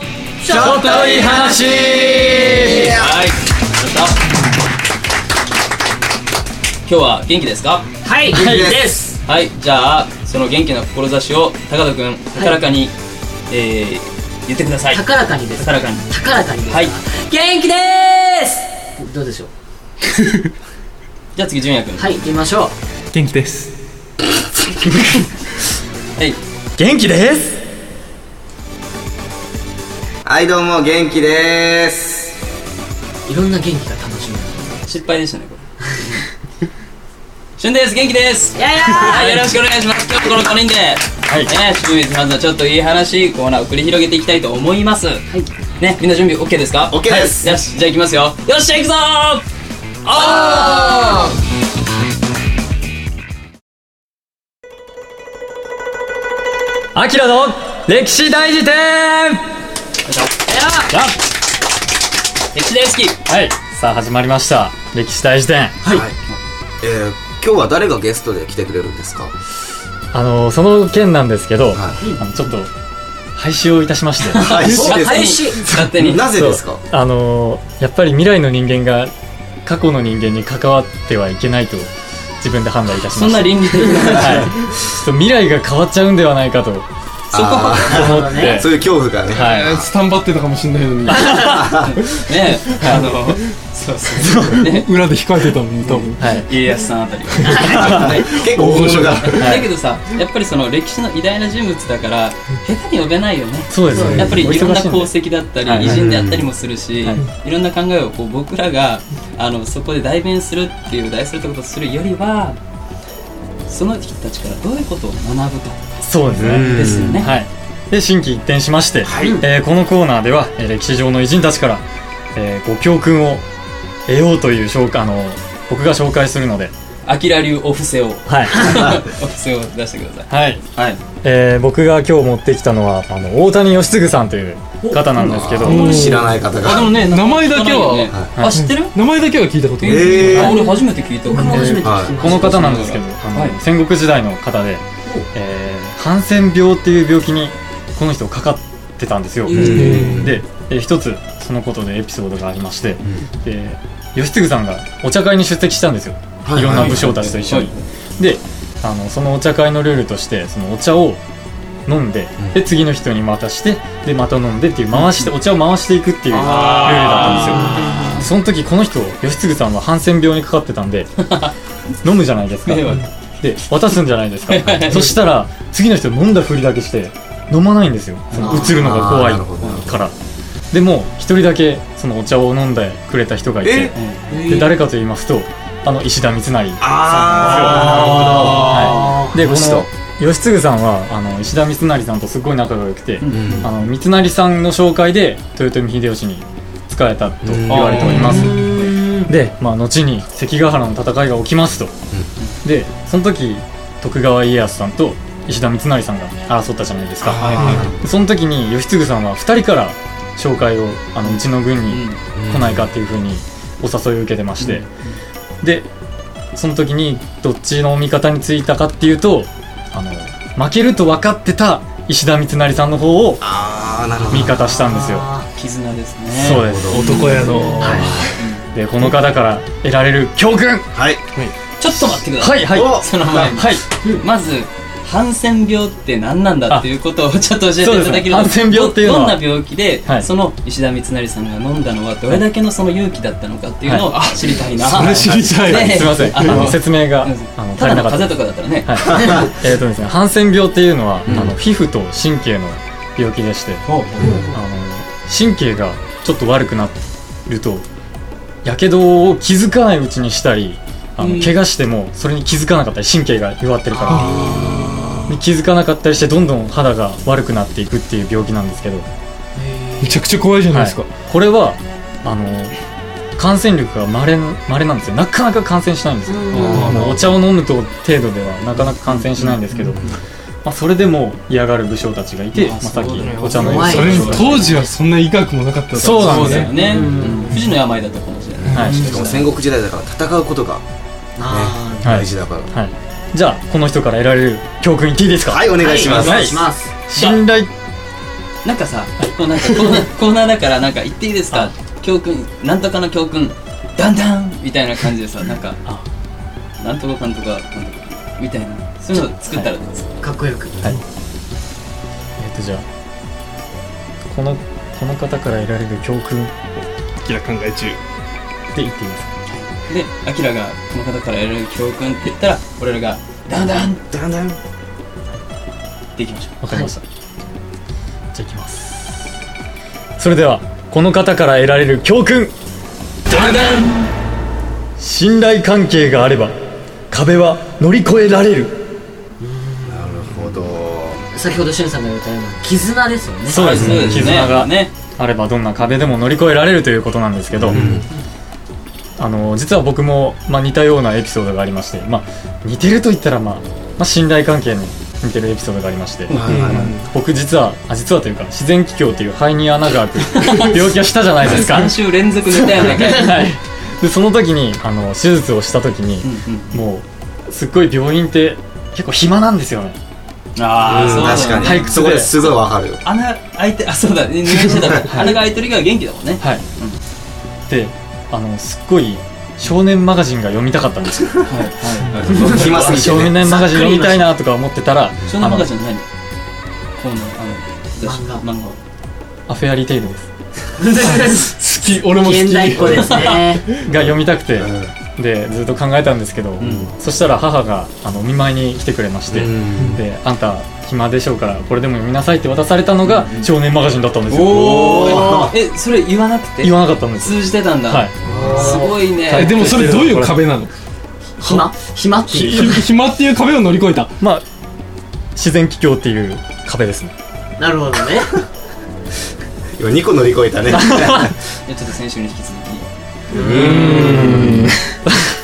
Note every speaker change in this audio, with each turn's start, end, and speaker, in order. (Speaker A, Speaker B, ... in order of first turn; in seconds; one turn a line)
Speaker A: 0.4-1.7
Speaker B: 0.5-1.2
Speaker C: 0.5-2.9
Speaker B: 2.4-3.1
Speaker D: 2.6-4.2
Speaker D: 6.8-7.8
Speaker A: 8.0-9.2
Speaker C: 8.3-8.7
Speaker B: 8.4-8.8
Speaker D: 9.2-12.9
Speaker A: 12.3-12.6
Speaker D: 13.5-16.9
Speaker A: 14.9-19.5
Speaker D: 21.3-22.2
Speaker A: 22.0-22.7
Speaker E: 23.1-23.7
Speaker C: 24.8-25.3
Speaker C: 26.8-27.6
Speaker B: 30.2-32.3
Speaker A: 33.2-34.8
Speaker D: 34.8-36.2
Speaker D: 37.6-45.2
Speaker A: 38.5-39.2
Speaker C: 39.1-39.5
Speaker D: 45.8-49.4
Speaker B: 46.9-47.6
Speaker D: 50.0-51.3
Speaker B: 50.2-51.2
Speaker C: 56.9-59.4
Speaker D: 60.0-60.5
Speaker C: 60.9-61.1
Speaker D: 62.5-63.2
Speaker C: 63.2-65.8
Speaker B: 65.8-66.1
Speaker B: 66.8-69.3
Speaker C: 70.1-72.7
Speaker C: 73.3-74.7
Speaker D: 74.2-76.3
Speaker B: 74.4-74.9
Speaker A: 74.6-75.8
Speaker E: 74.8-75.4
Speaker C: 75.9-79.1
Speaker B: 76.0-76.8
Speaker C: 79.6-86.9
Speaker D: 83.0-84.5
Speaker D: 87.3-88.1
Speaker B: 87.3-89.8
Speaker A: 87.8-88.7
Speaker C: 87.8-88.7
Speaker C: 89.3-89.8
Speaker E: 89.3-91.5
Speaker C: 91.1-91.4
Speaker D: 91.1-94.9
Speaker B: 91.4-92.0
Speaker C: 92.8-93.1
Speaker C: 94.2-94.7
Speaker E: 94.6-96.2
Speaker D: 95.8-98.5
Speaker C: 96.2-96.5
Speaker E: 97.4-97.7
Speaker A: 97.5-97.8
Speaker C: 97.7-98.0
Speaker B: 97.8-99.4
Speaker E: 98.5-99.5
Speaker D: 99.1-112.6
Speaker C: 99.4-99.7
Speaker C: 103.7-105.1
Speaker A: 103.9-104.5
Speaker C: 105.6-106.0
Speaker B: 105.8-106.5
Speaker D: 113.7-117.4
Speaker C: 116.0-123.4
Speaker B: 116.4-117.2
Speaker B: 119.0-119.4
Speaker C: 124.1-126.7
Speaker D: 127.0-131.0
Speaker C: 128.3-128.8
Speaker C: 130.3-130.6
Speaker C: 131.2-136.0
Speaker D: 135.1-135.9
Speaker B: 135.2-136.9
Speaker E: 135.6-140.6
Speaker D: 136.6-139.0
Speaker B: 138.1-138.3
Speaker D: 139.8-143.6
Speaker B: 139.8-140.3
Speaker C: 140.2-140.6
Speaker A: 140.3-142.8
Speaker C: 141.5-161.2
Speaker B: 141.8-142.2
Speaker B: 149.5-150.4
Speaker E: 149.6-150.3
Speaker B: 156.4-157.1
Speaker D: 156.6-157.8
Speaker C: 161.9-171.2
Speaker D: 164.9-165.3
Speaker D: 166.3-168.3
Speaker B: 166.4-167.4
Speaker A: 167.0-168.1
Speaker D: 171.2-171.5
Speaker C: 172.0-180.1
Speaker D: 172.7-173.2
Speaker D: 174.5-175.2
Speaker D: 178.3-178.7
Speaker A: 178.4-178.8
Speaker B: 178.6-179.9
Speaker D: 179.6-179.9
Speaker C: 180.7-201.9
Speaker B: 183.6-183.9
Speaker D: 183.9-184.3
Speaker A: 184.3-184.7
Speaker B: 186.8-189.9
Speaker A: 187.8-189.4
Speaker E: 188.1-188.6
Speaker D: 193.2-193.5
Speaker B: 193.3-193.7
Speaker B: 197.4-197.9
Speaker E: 197.7-198.7
Speaker A: 197.9-199.2
Speaker D: 198.4-198.9
Speaker C: 202.6-214.8
Speaker B: 207.2-208.1
Speaker D: 207.4-207.9
Speaker E: 207.6-207.9
Speaker D: 211.2-212.2
Speaker B: 212.3-212.9
Speaker D: 214.6-215.2
Speaker C: 215.6-215.9
Speaker C: 216.5-223.4
Speaker B: 223.4-224.6
Speaker A: 224.3-225.5
Speaker C: 224.3-225.3
Speaker D: 225.5-226.7
Speaker C: 226.3-230.9
Speaker B: 226.6-227.2
Speaker E: 226.9-228.4
Speaker A: 227.2-228.1
Speaker D: 228.4-228.6
Speaker B: 230.9-231.2
Speaker D: 231.8-249.2
Speaker C: 231.9-233.8
Speaker B: 232.7-233.6
Speaker C: 237.8-239.4
Speaker E: 244.1-246.7
Speaker C: 244.9-253.9
Speaker B: 251.2-251.5
Speaker D: 253.9-254.4
Speaker A: 254.2-254.5
Speaker C: 254.5-257.9
Speaker C: 258.6-264.6
Speaker D: 261.2-261.5
Speaker A: 263.9-265.1
Speaker E: 264.1-264.4
Speaker B: 264.5-265.3
Speaker C: 265.2-269.1
Speaker A: 269.6-270.2
Speaker E: 270.0-271.1
Speaker C: 270.7-272.7
Speaker C: 273.4-280.0
Speaker A: 276.3-276.9
Speaker D: 276.5-277.3
Speaker E: 276.8-277.2
Speaker D: 279.1-280.1
Speaker B: 279.9-280.1
Speaker C: 280.6-284.5
Speaker D: 282.5-284.8
Speaker A: 283.4-284.9
Speaker E: 283.8-286.8
Speaker C: 285.9-286.7
Speaker D: 286.0-289.5
Speaker A: 286.8-287.7
Speaker B: 288.6-290.8
Speaker C: 288.7-289.1
Speaker A: 291.4-292.2
Speaker B: 291.5-292.7
Speaker C: 292.0-297.7
Speaker B: 295.4-296.6
Speaker A: 295.8-296.9
Speaker D: 297.1-297.4
Speaker D: 298.6-305.8
Speaker C: 299.2-300.0
Speaker D: 306.8-310.1
Speaker C: 309.1-309.7
Speaker A: 310.2-310.8
Speaker C: 312.4-312.8
Speaker C: 314.2-316.5
Speaker E: 316.8-318.0
Speaker C: 318.7-319.3
Speaker D: 319.5-324.0
Speaker B: 324.1-324.6
Speaker D: 326.1-326.9
Speaker C: 326.6-327.0
Speaker C: 328.3-329.2
Speaker C: 330.2-332.5
Speaker D: 333.3-334.1
Speaker C: 335.0-336.5
Speaker C: 337.1-338.8
Speaker A: 339.4-340.4
Speaker B: 339.8-341.2
Speaker A: 341.3-344.4
Speaker D: 343.4-344.9
Speaker C: 343.5-347.9
Speaker B: 343.8-344.4
Speaker B: 347.5-348.1
Speaker E: 347.7-348.0
Speaker C: 349.2-361.9
Speaker B: 356.3-356.9
Speaker E: 356.5-357.1
Speaker D: 360.4-360.8
Speaker D: 361.4-363.4
Speaker C: 362.6-370.0
Speaker D: 366.2-366.8
Speaker D: 370.6-377.0
Speaker B: 370.9-373.0
Speaker A: 371.4-371.9
Speaker C: 371.5-372.3
Speaker B: 374.6-374.9
Speaker C: 375.0-375.4
Speaker C: 377.7-381.5
Speaker D: 381.4-383.0
Speaker B: 382.1-383.4
Speaker A: 382.2-382.7
Speaker C: 382.4-385.7
Speaker A: 383.3-384.3
Speaker D: 385.3-386.0
Speaker D: 386.9-388.8
Speaker A: 388.0-388.4
Speaker C: 389.5-390.3
Speaker A: 390.8-391.6
Speaker E: 391.0-393.8
Speaker A: 392.1-393.8
Speaker B: 392.8-393.0
Speaker D: 393.0-393.4
Speaker C: 393.8-405.4
Speaker B: 393.9-394.9
Speaker D: 396.6-396.9
Speaker B: 396.6-396.9
Speaker B: 399.3-400.0
Speaker D: 403.0-403.5
Speaker D: 404.3-409.9
Speaker B: 404.6-405.5
Speaker C: 406.6-410.4
Speaker A: 408.2-409.0
Speaker E: 409.3-410.7
Speaker A: 411.4-412.9
Speaker C: 411.4-411.7
Speaker E: 412.3-414.1
Speaker C: 415.4-417.1
Speaker A: 417.6-418.3
Speaker B: 419.8-421.3
Speaker C: 420.7-421.3
Speaker D: 421.6-422.8
Speaker A: 423.3-424.4
Speaker B: 423.3-424.7
Speaker E: 423.5-424.7
Speaker C: 424.1-425.1